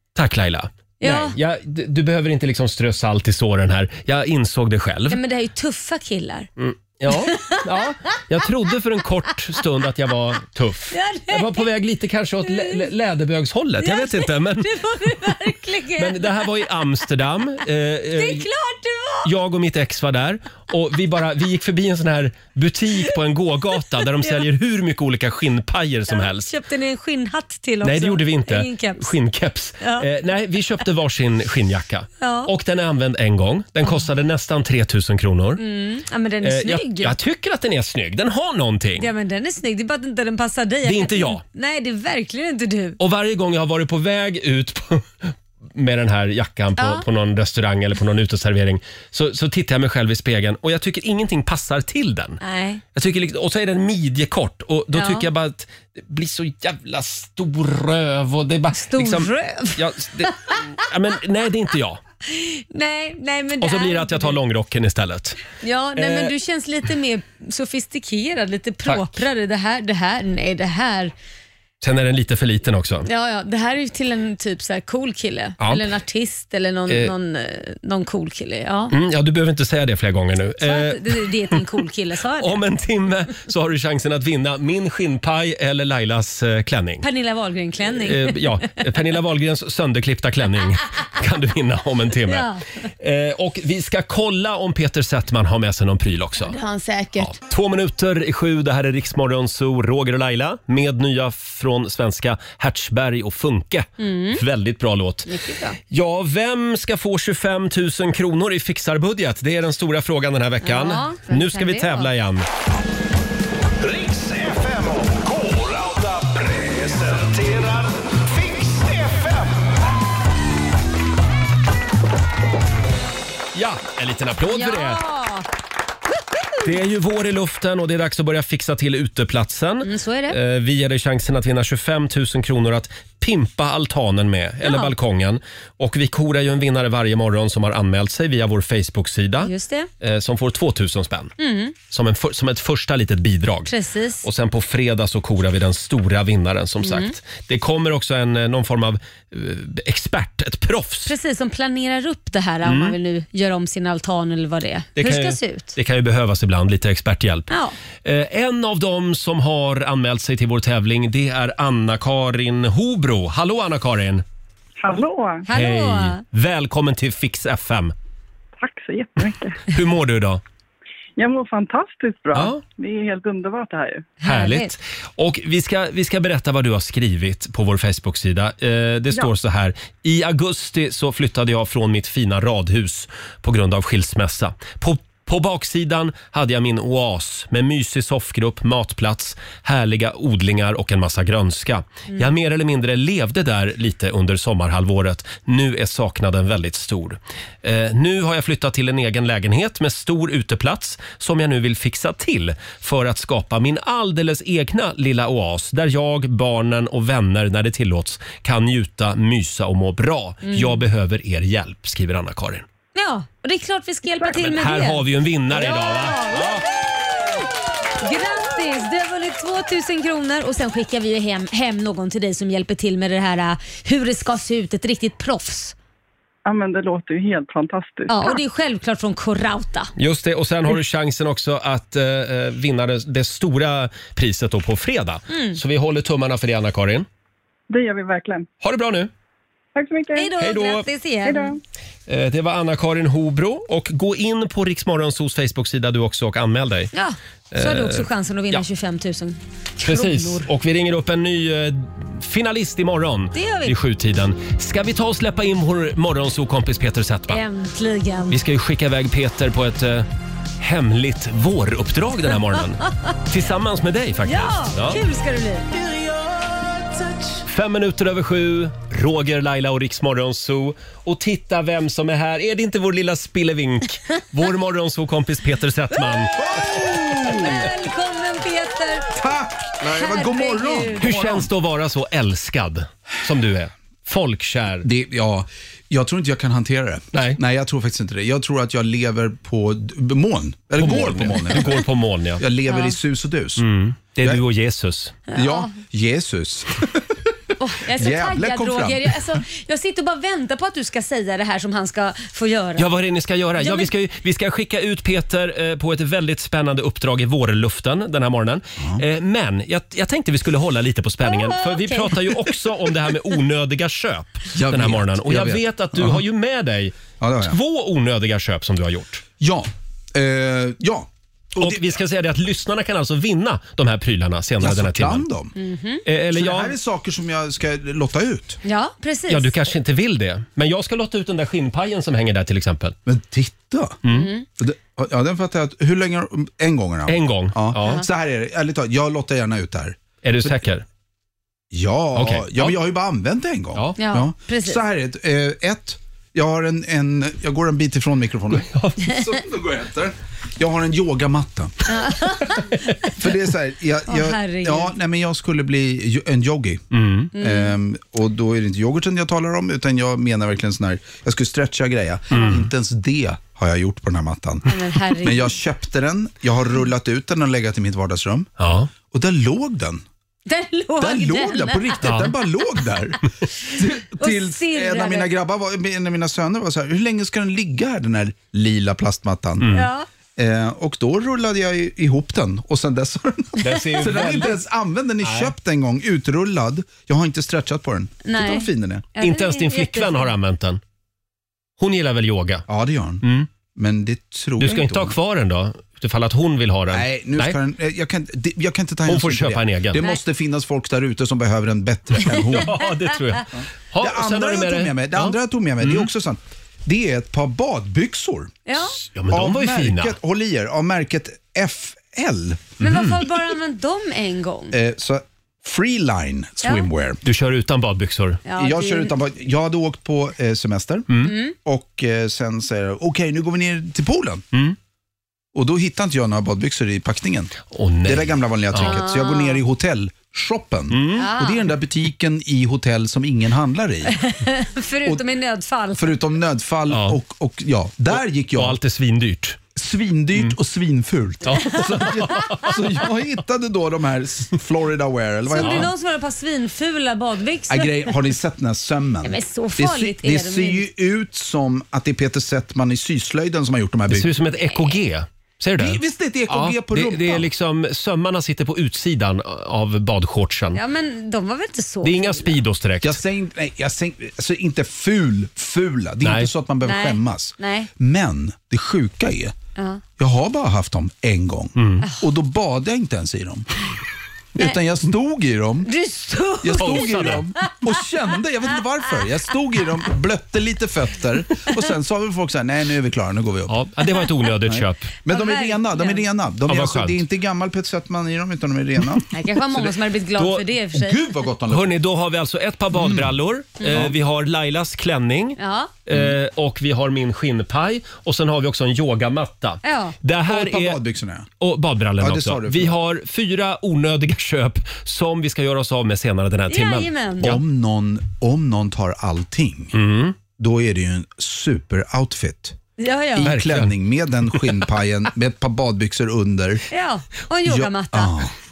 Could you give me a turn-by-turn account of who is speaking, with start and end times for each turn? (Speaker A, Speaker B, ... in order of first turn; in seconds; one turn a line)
Speaker A: 0.1-5.2
Speaker B: 1.0-1.4
Speaker B: 5.1-6.5
Speaker A: 6.6-15.1
Speaker B: 7.1-8.2
Speaker B: 10.9-11.7
Speaker B: 12.4-12.8
Speaker B: 13.8-16.6
Speaker A: 15.9-18.5
Speaker B: 18.1-19.3
Speaker A: 19.2-26.5
Speaker B: 24.2-24.4
Speaker B: 26.1-29.1
Speaker A: 27.8-35.6
Speaker B: 29.8-30.1
Speaker B: 32.2-32.5
Speaker B: 35.6-37.1
Speaker A: 36.4-39.1
Speaker B: 39.0-43.0
Speaker A: 40.8-41.4
Speaker A: 43.0-52.4
Speaker B: 46.8-47.0
Speaker B: 52.4-52.8
Speaker A: 52.9-62.0
Speaker B: 54.9-55.3
Speaker B: 58.7-60.6
Speaker B: 62.2-64.3
Speaker A: 63.6-65.4
Speaker B: 65.6-71.1
Speaker A: 65.9-66.3
Speaker A: 68.8-69.2
Speaker A: 71.8-73.1
Speaker B: 73.0-78.9
Speaker A: 75.6-75.9
Speaker A: 78.9-81.6
Speaker B: 80.6-82.6
Speaker A: 82.3-87.0
Speaker B: 87.0-88.8
Speaker A: 87.9-96.5
Speaker B: 92.3-92.6
Speaker B: 96.4-97.4
Speaker A: 97.2-105.3
Speaker B: 104.0-104.4
Speaker B: 105.2-105.8
Speaker A: 105.9-112.5
Speaker B: 110.6-112.1
Speaker C: 113.8-119.7
Speaker A: 123.5-125.0
Speaker B: 124.5-125.5
Speaker A: 126.6-141.3
Speaker B: 129.8-130.4
Speaker B: 134.6-134.9
Speaker B: 139.4-139.9
Speaker B: 141.4-141.7
Speaker A: 141.9-151.1
Speaker B: 143.7-144.2
Speaker B: 146.8-147.1
Speaker B: 151.1-155.7
Speaker A: 152.6-153.0
Speaker A: 155.0-157.5
Speaker B: 157.5-157.8
Speaker A: 158.0-164.2
Speaker D: 164.8-165.4
Speaker B: 165.5-166.2
Speaker A: 165.5-167.9
Speaker D: 168.6-169.7
Speaker A: 169.7-170.4
Speaker D: 171.2-174.2
Speaker A: 172.3-172.6
Speaker B: 174.2-174.7
Speaker A: 174.2-212.6
Speaker B: 210.4-210.8
Speaker B: 212.9-217.4
Speaker A: 214.2-216.7
Speaker B: 218.0-225.7
Speaker D: 226.4-228.4
Speaker B: 228.1-229.9
Speaker A: 230.0-237.1
Speaker B: 235.3-235.6
Speaker D: 237.7-238.5
Speaker A: 238.6-239.1
Speaker D: 239.7-240.3
Speaker B: 240.1-241.6
Speaker A: 240.4-240.9
Speaker D: 241.2-241.6
Speaker A: 242.1-246.9
Speaker B: 246.9-250.5
Speaker A: 247.5-248.6
Speaker A: 249.8-257.4
Speaker B: 253.3-253.7
Speaker B: 257.3-258.4
Speaker A: 258.3-260.1
Speaker A: 260.6-265.0
Speaker B: 264.2-265.8
Speaker A: 267.4-276.3
Speaker E: 276.3-277.7
Speaker B: 276.6-279.1
Speaker E: 279.1-281.5
Speaker B: 279.8-281.1
Speaker A: 281.0-284.8
Speaker E: 284.8-293.6
Speaker A: 287.1-287.4
Speaker A: 290.8-292.4
Speaker B: 292.7-292.9
Speaker A: 293.6-295.2
Speaker B: 295.3-295.7
Speaker E: 295.3-297.3
Speaker B: 297.6-302.9
Speaker E: 297.9-299.4
Speaker A: 302.8-319.2
Speaker B: 303.6-303.9
Speaker B: 311.2-312.5
Speaker E: 314.5-316.2
Speaker E: 317.2-317.6
Speaker E: 319.4-322.0
Speaker A: 321.6-325.2
Speaker E: 324.6-325.5
Speaker B: 325.5-326.0
Speaker A: 326.1-326.7
Speaker E: 326.3-328.6
Speaker B: 328.6-329.5
Speaker A: 329.3-332.9
Speaker E: 333.1-340.6
Speaker A: 334.0-334.3
Speaker B: 334.1-334.4
Speaker A: 337.1-338.0
Speaker B: 337.8-338.1
Speaker A: 340.2-340.8
Speaker E: 341.7-352.2
Speaker A: 342.1-342.7
Speaker B: 344.0-344.8
Speaker A: 348.5-349.0
Speaker B: 351.9-353.1
Speaker E: 353.2-356.8
Speaker B: 354.1-354.9
Speaker A: 356.9-357.3
Speaker B: 357.3-357.8
Speaker E: 357.4-368.5
Speaker B: 362.3-362.6
Speaker A: 362.3-362.6
Speaker B: 364.6-365.5
Speaker A: 368.6-368.9
Speaker E: 369.0-370.0
Speaker B: 370.5-372.0
Speaker E: 371.0-379.7
Speaker A: 372.0-372.3
Speaker B: 374.2-375.3
Speaker A: 379.6-379.9
Speaker B: 379.7-380.1
Speaker E: 380.4-389.1
Speaker A: 383.6-384.6
Speaker B: 383.7-384.3
Speaker A: 385.2-385.5
Speaker B: 388.2-390.3
Speaker A: 389.2-390.8
Speaker A: 391.8-392.6
Speaker E: 392.7-395.1
Speaker A: 393.2-393.5
Speaker A: 394.6-397.5
Speaker E: 396.9-402.8
Speaker A: 399.1-400.0
Speaker A: 402.2-406.1
Speaker B: 402.3-403.1
Speaker E: 404.0-408.6
Speaker B: 408.6-409.0
Speaker A: 409.0-410.1
Speaker E: 409.3-412.8
Speaker B: 412.8-414.7
Speaker A: 412.8-413.2
Speaker E: 414.7-417.2
Speaker A: 417.2-418.4
Speaker B: 418.4-419.1
Speaker E: 418.5-424.4
Speaker A: 421.1-421.3
Speaker B: 421.2-421.5
Speaker E: 425.5-427.5
Speaker A: 427.7-429.0
Speaker E: 428.0-434.2
Speaker B: 428.8-429.6
Speaker A: 430.9-431.3
Speaker B: 431.1-431.7
Speaker B: 434.1-436.2
Speaker E: 436.0-438.8
Speaker A: 436.9-437.2
Speaker A: 438.1-439.6
Speaker E: 439.7-445.9
Speaker A: 441.4-442.7
Speaker B: 441.5-442.1
Speaker B: 445.4-448.1
Speaker A: 445.6-445.9
Speaker E: 447.7-454.3
Speaker B: 449.2-450.9
Speaker A: 454.1-460.8
Speaker E: 455.8-457.5
Speaker B: 460.7-462.6
Speaker A: 462.0-463.2
Speaker E: 463.0-469.5
Speaker A: 466.2-466.5
Speaker B: 466.8-467.9
Speaker E: 470.2-473.7
Speaker A: 471.8-472.1
Speaker E: 474.6-475.9
Speaker B: 475.8-477.7
Speaker E: 476.6-483.8
Speaker A: 476.7-477.4
Speaker A: 483.7-485.1
Speaker E: 484.6-489.3
Speaker B: 485.3-486.2
Speaker A: 486.7-487.2
Speaker B: 489.3-491.3
Speaker A: 489.7-490.8
Speaker E: 490.9-492.0
Speaker A: 491.7-501.0
Speaker E: 492.9-493.4
Speaker E: 493.9-494.2
Speaker B: 495.6-495.9
Speaker E: 496.1-496.4
Speaker B: 499.8-500.1
Speaker E: 500.4-501.5
Speaker A: 501.6-507.6
Speaker E: 502.2-503.0
Speaker B: 506.7-507.6
Speaker E: 507.4-509.9
Speaker A: 509.9-510.4
Speaker E: 510.5-512.8
Speaker B: 513.0-513.6
Speaker E: 513.4-516.8
Speaker A: 513.4-513.9
Speaker B: 516.9-518.3
Speaker E: 517.6-518.5